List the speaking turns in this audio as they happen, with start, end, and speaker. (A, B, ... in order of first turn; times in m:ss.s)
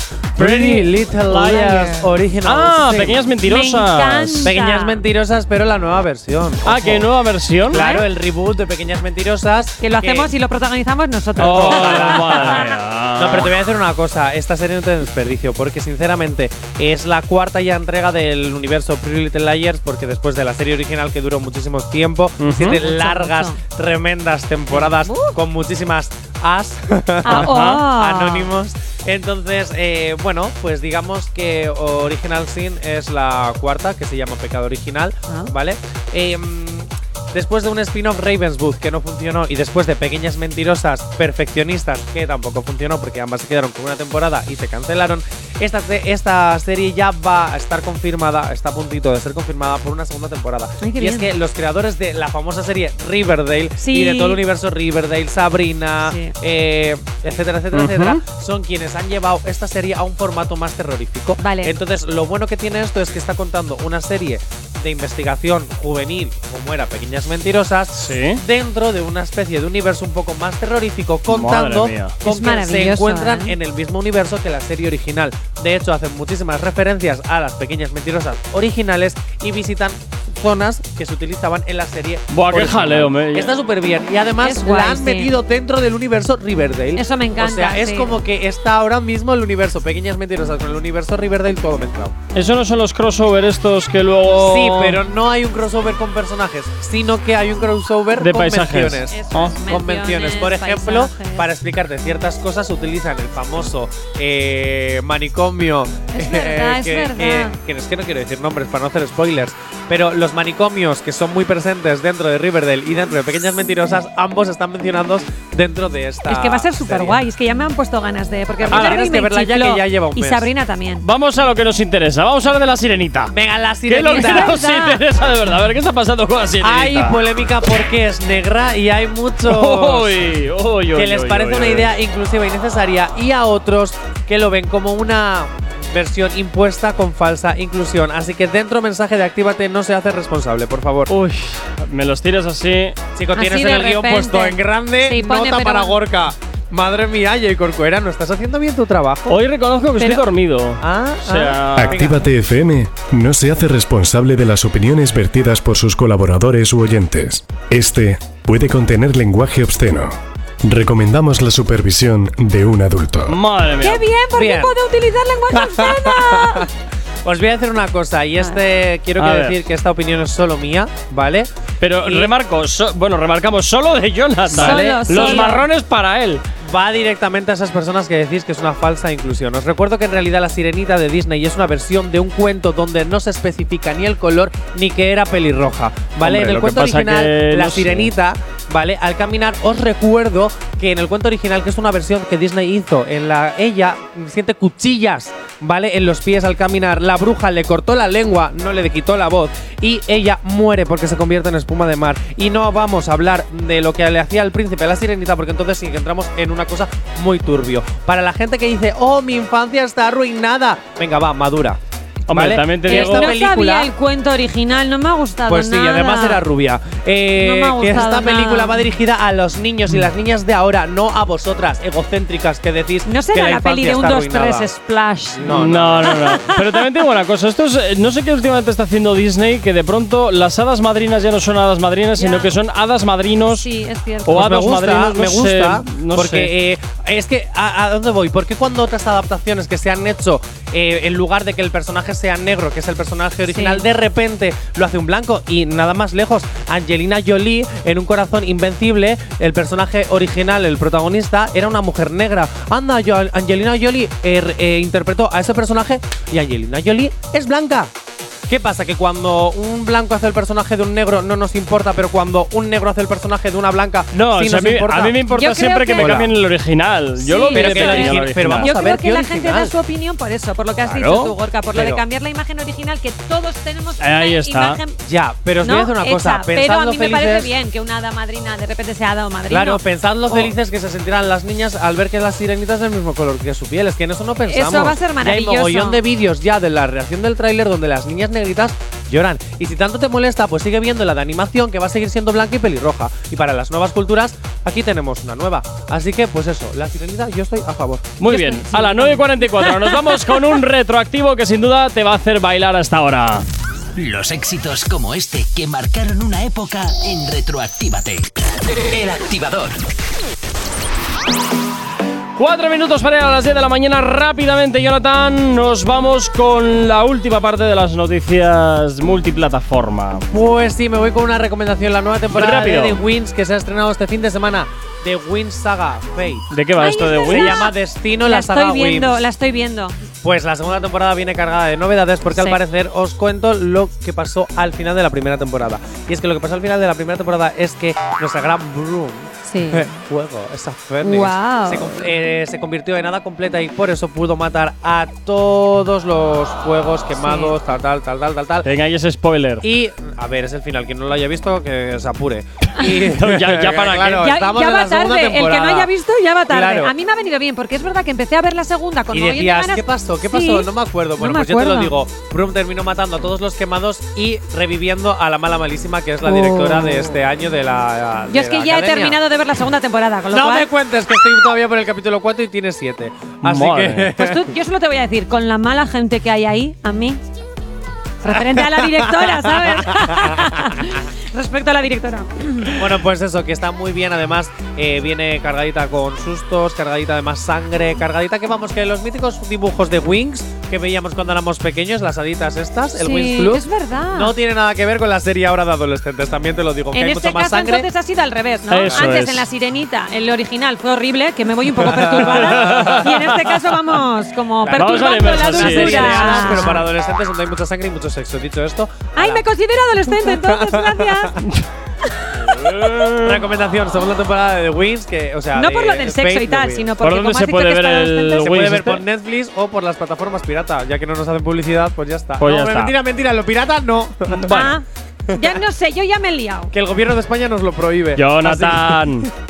0:00.4-0:03.3 A
0:00.4-0:04.5 B
0:03.4-0:05.0 C
0:04.4-0:07.1 A
0:06.6-0:07.8 B
0:07.7-0:10.3 A
0:07.7-0:08.1 C
0:09.8-0:12.8 C
0:11.4-1:32.2 A
0:11.4-0:13.5 B
0:22.4-0:22.8 B
0:22.8-0:23.6 C
0:24.7-0:25.4 C
0:27.2-0:28.5 C
0:27.3-0:27.8 B
0:50.8-0:51.3 C
0:53.8-0:54.4 C
0:56.0-0:56.3 C
0:57.7-0:58.2 B
1:01.4-1:01.8 C
1:08.0-1:08.4 B
1:11.3-1:12.2 B
1:12.2-1:13.6 C
1:22.3-1:23.6 B
1:24.4-1:25.3 C
1:27.0-1:28.1 C
1:32.3-1:35.0 B
1:34.3-1:57.2 A
1:38.2-1:39.6 B
1:39.1-1:41.5 C
1:46.1-1:47.6 C
1:56.3-2:01.0 C
1:58.6-2:00.5 A
1:58.7-1:59.0 B
2:01.0-2:03.4 B
2:03.3-2:04.6 A
2:03.9-2:07.2 B
2:04.0-2:05.0 C
2:06.6-2:10.2 A
2:09.4-2:11.9 B
2:11.0-2:21.1 A
2:21.1-2:23.0 B
2:23.2-2:29.4 A
2:23.3-2:26.0 C
2:29.3-2:32.0 B
2:30.8-2:32.3 A
2:31.8-2:43.4 D
2:43.3-2:44.1 B
2:43.8-2:46.7 C
2:44.3-2:44.8 A
2:45.5-2:46.7 A
2:47.2-2:52.3 A
2:48.4-2:48.6 C
2:49.2-2:49.6 B
2:51.8-2:56.4 B
2:54.5-2:55.6 A
2:54.6-2:55.6 C
2:56.6-3:33.9 A
3:06.2-3:08.1 B
3:32.3-3:33.3 B
3:32.9-3:36.4 C
3:35.5-3:44.7 A
3:37.4-3:38.9 C
3:43.1-3:46.6 C
3:45.4-3:46.4 A
3:45.5-3:53.7 B
3:52.2-3:52.5 C
3:53.5-3:54.6 C
3:54.3-3:56.5 B
3:54.3-4:17.9 A
4:03.5-4:03.8 C
4:18.5-4:25.2 A
4:24.1-4:28.8 B
4:25.3-4:26.2 C
4:26.0-4:26.3 A
4:27.2-4:35.0 C
4:27.5-4:29.7 A
4:30.8-4:32.0 A
4:34.0-4:34.8 B
4:35.0-4:37.5 A
4:35.6-4:40.5 C
4:39.5-4:58.2 A
4:44.5-4:46.0 C
4:58.2-5:03.4 B
4:58.2-5:00.0 C
5:04.0-5:09.8 E
5:12.4-5:20.3 B
5:20.3-5:26.5 A
5:22.3-5:23.0 B
5:26.5-5:27.6 B
5:26.8-5:30.0 C
5:27.3-5:29.2 A
5:30.2-5:48.7 A
5:32.3-5:32.6 C
5:39.5-5:39.9 C
5:41.0-5:42.0 C
5:47.2-5:47.6 C
5:48.6-5:49.6 B
5:49.6-5:55.9 A
5:53.0-5:54.3 B
5:54.2-6:01.9 C
5:56.5-5:57.0 A
5:59.1-6:09.2 A
6:06.2-6:07.2 C
6:08.3-6:10.7 C
6:10.3-6:14.6 A
6:13.4-6:14.1 B
6:14.2-6:17.2 C
6:18.2-6:22.8 C
6:18.3-6:20.9 A
6:22.8-6:37.9 A
6:33.0-6:34.4 C
6:36.9-6:46.8 C
6:38.7-6:39.5 B
6:38.8-6:39.1 A
6:41.8-6:43.1 A
6:41.8-6:43.7 B
6:44.6-6:49.5 A
6:44.7-6:46.8 B
6:49.2-6:51.4 C
6:50.1-6:51.4 A
6:52.3-6:53.5 B
6:52.8-6:56.9 A
6:55.5-6:58.5 C
6:57.0-6:59.0 B
6:58.4-7:04.7 A
7:02.4-7:03.0 B
7:04.3-7:04.7 B
7:04.5-7:06.7 C
7:05.3-7:05.6 A
7:06.7-7:09.3 A
7:08.2-7:09.3 B